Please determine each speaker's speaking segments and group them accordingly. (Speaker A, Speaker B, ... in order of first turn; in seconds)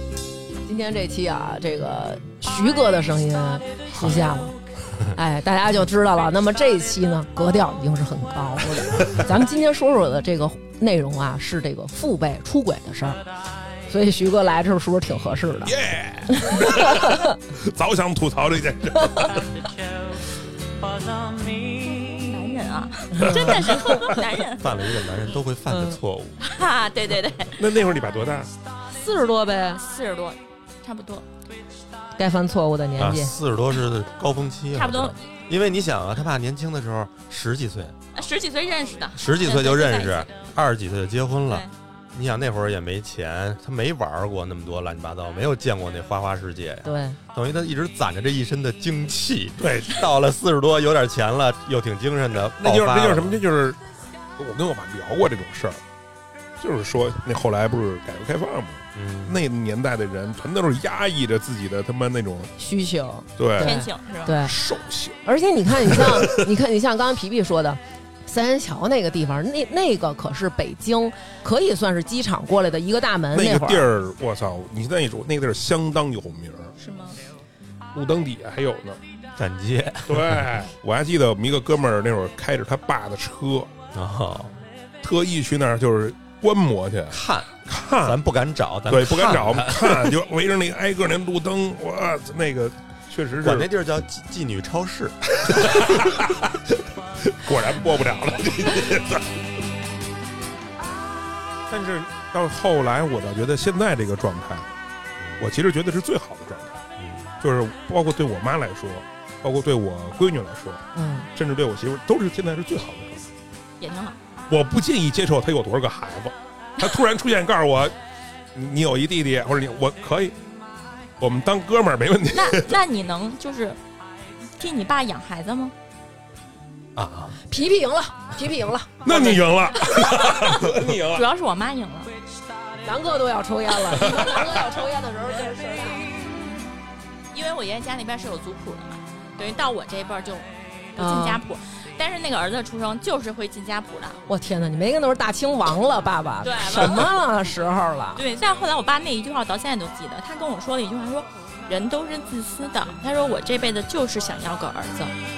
Speaker A: 0.7-4.5, 5.1-13.2, 13.9-15.7, 16.3-17.3, 23.1-24.2, 25.7-26.0, 28.9-29.8, 32.1-33.4, 46.8-47.2, 62.6-64.5, 65.2-73.9, 110.9-111.3, 127.4-130.9, 132.8-136.2, 141.0-141.4, 144.3-148.2
Speaker B: 15.7-19.4, 27.6-28.5, 49.6-50.1, 52.6-53.8, 54.4-55.8, 56.6-62.5, 63.4-63.8, 64.4-65.2, 65.8-66.3, 73.3-76.7, 77.9-79.0, 80.1-83.7, 85.0-88.2, 88.9-93.7, 95.5-96.5, 97.2-99.4, 101.7-104.7, 105.4-106.8, 107.4-113.3, 114.5-117.9, 118.5-120.4, 121.2-122.8, 129.0-131.3
Speaker C: 21.7-24.9, 26.4-27.6, 29.7-31.2, 34.7-35.3, 38.1-40.5, 41.5-41.7, 63.5-64.4, 76.8-77.2, 113.8-114.2, 122.3-123.8, 124.6-125.7, 131.1-132.1, 137.3-144.2, 146.4-147.1, 148.2-155.1
Speaker D: 24.6-26.4, 33.0-38.2, 39.1-53.4, 58.9-59.4, 79.3-80.6, 83.9-84.6, 87.1-90.2, 93.4-95.2, 105.2-105.5, 107.0-107.4, 127.0-127.4